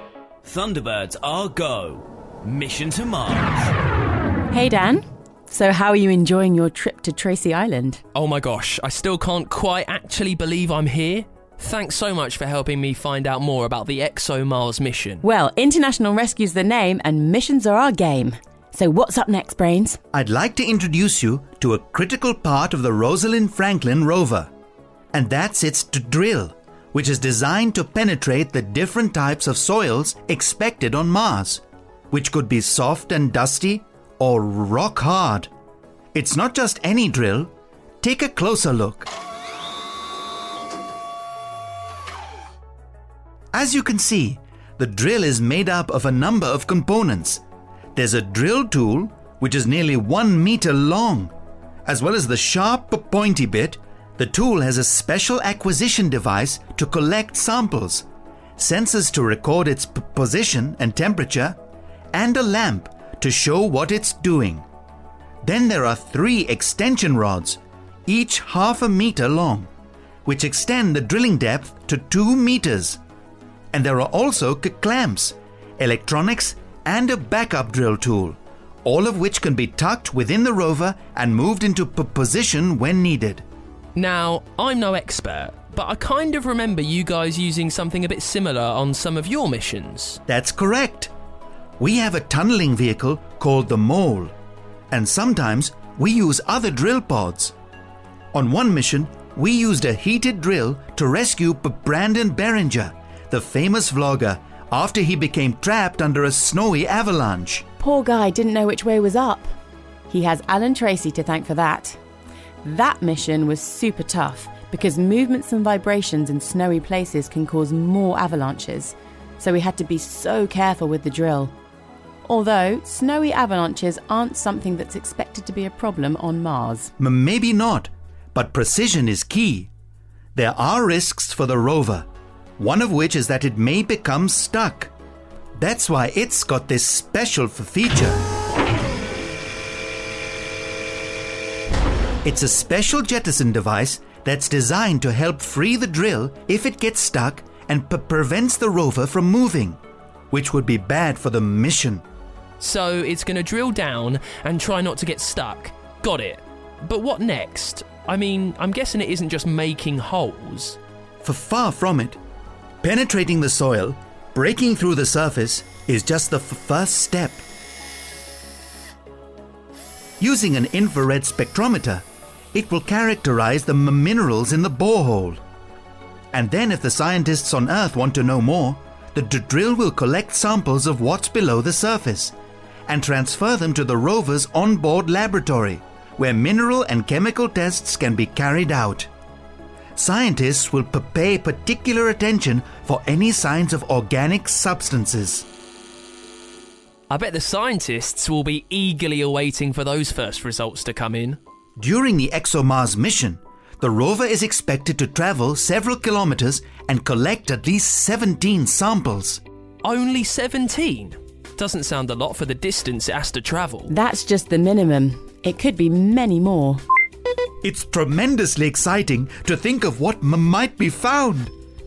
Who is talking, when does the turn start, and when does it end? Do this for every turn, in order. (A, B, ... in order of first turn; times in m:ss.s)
0:00.4-0:03.7 A
0:04.5-0:08.0 B
0:08.1-0:15.2 C
0:15.2-0:20.0 B
0:20.1-0:24.5 D
0:25.1-0:35.5 D
0:36.1-0:39.1 D
0:43.5-0:47.4 D
0:48.0-0:51.3 D
0:51.9-0:58.1 D
0:58.6-1:01.6 D
1:02.1-1:04.6 D
1:05.4-1:09.7 D
1:10.2-1:13.0 D
1:13.7-1:23.4 D
1:24.0-1:30.2 C
1:30.3-1:31.1 D
1:31.8-1:34.3 D
1:34.9-1:37.5 D
1:38.3-1:47.6 D
1:47.8-1:49.5 B
1:50.1-1:52.0 B
1:52.6-2:01.5 B
2:02.3-2:06.9 B
2:07.0-2:09.7 D
2:10.4-2:12.1 D
2:12.6-2:14.9 D
2:15.6-2:18.2 D
2:22.2-2:29.8 D
2:30.3-2:32.0 D
2:32.6-2:40.8 C
2:41.2-2:42.2 D
2:42.8-2:47.4 D
2:50.2-2:55.4 D
2:56.3-3:02.3 D
3:02.9-3:09.1 D
3:10.0-3:15.4 D
3:17.1-3:21.4 C
3:21.8-3:29.4 D
3:29.8-3:33.9 C
3:33.9-3:36.8 B
3:37.6-3:41.5 D